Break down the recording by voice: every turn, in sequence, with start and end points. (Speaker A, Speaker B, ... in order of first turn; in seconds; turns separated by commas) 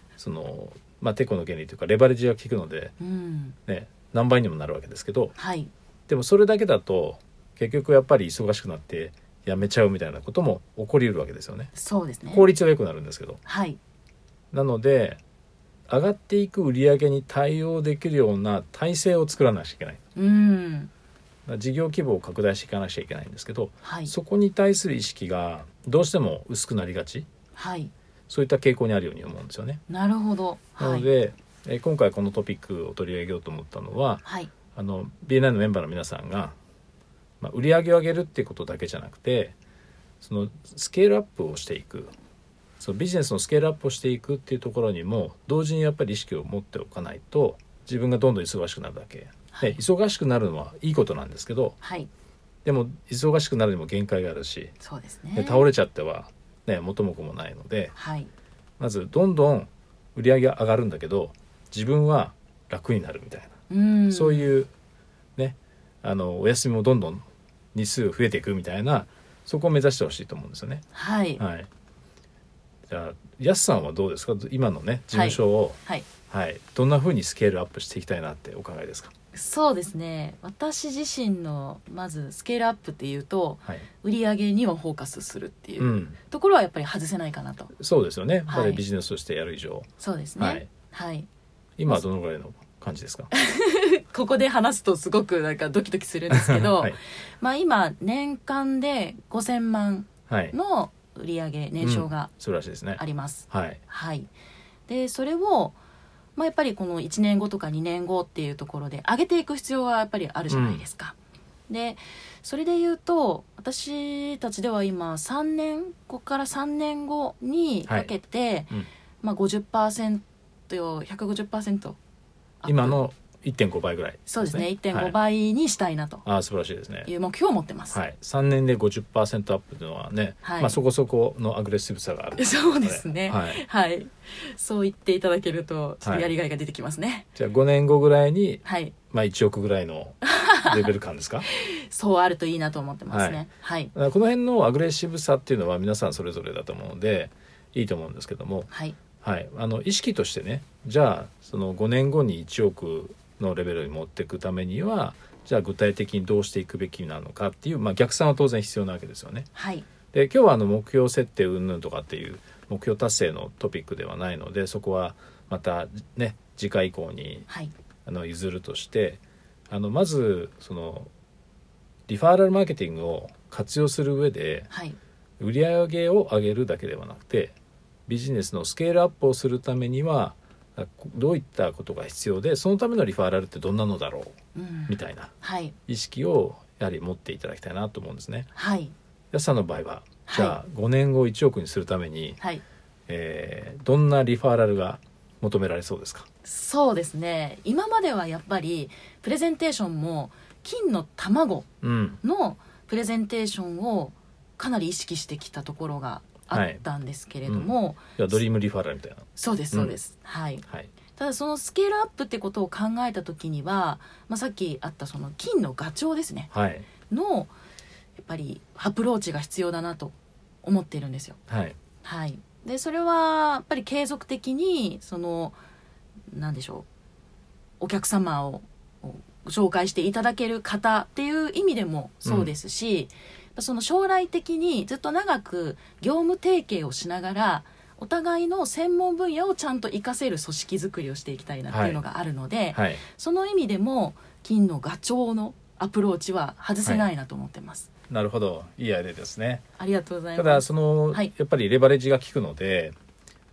Speaker A: 0.2-2.9, Speaker B: 3.0-3.6, Speaker A: 3.7-5.3, Speaker B: 5.3-5.7, Speaker A: 6.1-11.7, Speaker B: 11.7-12.4, Speaker A: 12.3-13.4, Speaker B: 13.4-13.8, Speaker A: 14.5-15.2, Speaker A: 15.9-20.0, Speaker B: 20.1-20.9, Speaker A: 21.5-27.3, Speaker B: 23.8-24.1, Speaker B: 27.5-27.9, Speaker A: 28.3-29.8, Speaker B: 29.9-31.1, Speaker A: 30.8-36.5, Speaker B: 34.2-34.5, Speaker A: 37.4-39.5, Speaker A: 40.2-42.1, Speaker A: 42.8-51.8, Speaker B: 49.5-49.8, Speaker B: 51.8-52.1, Speaker A: 52.6-54.7, Speaker B: 54.8-55.7, Speaker A: 55.3-57.9, Speaker B: 57.9-58.3, Speaker A: 58.8-63.5, Speaker B: 63.7-64.5, Speaker A: 64.1-64.7, Speaker A: 65.4-70.8, Speaker B: 70.9-71.4, Speaker A: 71.4-71.7, Speaker A: 72.9-79.1, Speaker B: 75.1-76.1, Speaker B: 79.3-87.7, Speaker A: 85.8-86.2, Speaker A: 87.8-90.7, Speaker B: 88.5-88.8, Speaker B: 90.0-91.3, Speaker A: 91.8-93.3, Speaker B: 93.3-102.3, Speaker A: 96.3-97.0, Speaker A: 100.3-100.5, Speaker A: 101.8-103.8, Speaker B: 103.0-104.3, Speaker B: 104.9-105.8, Speaker B: 106.3-111.2, Speaker A: 110.5-110.8, Speaker B: 111.7-122.0, Speaker A: 117.9-118.1, Speaker B: 122.6-123.0, Speaker A: 122.6-125.2, Speaker B: 124.3-126.2, Speaker A: 126.2-127.1, Speaker B: 127.0-128.0, Speaker A: 127.9-133.6, Speaker B: 130.4-130.8, Speaker B: 132.4-137.3, Speaker A: 136.0-136.3, Speaker A: 137.3-141.4, Speaker B: 138.6-138.9, Speaker B: 140.2-140.8, Speaker B: 141.5-143.9, Speaker A: 143.1-148.7, Speaker B: 148.7-148.9, Speaker A: 149.2-159.5, Speaker B: 159.5-159.8, Speaker A: 160.1-167.5, Speaker A: 168.1-171.1, Speaker A: 172.1-174.7, Speaker B: 174.7-175.0, Speaker A: 175.4-177.5, Speaker A: 178.1-184.4, Speaker B: 184.5-185.7, Speaker A: 184.9-185.3, Speaker A: 185.9-188.5, Speaker B: 188.5-188.9, Speaker A: 189.3-192.4, Speaker B: 190.2-190.6, Speaker A: 193.1-196.3, Speaker B: 196.4-201.7, Speaker A: 201.8-202.2, Speaker B: 202.2-208.4, Speaker A: 206.5-206.8, Speaker A: 207.4-210.0, Speaker B: 209.3-210.6, Speaker B: 211.2-216.5, Speaker A: 216.5-216.9, Speaker B: 217.1-217.5, Speaker B: 218.2-221.4, Speaker A: 221.5-221.8, Speaker B: 222.0-225.6, Speaker B: 226.3-226.9, Speaker B: 227.8-247.9, Speaker A: 232.2-232.5, Speaker A: 241.7-242.0, Speaker A: 242.7-243.0, Speaker A: 248.1-249.6, Speaker B: 249.8-251.3, Speaker A: 250.3-252.9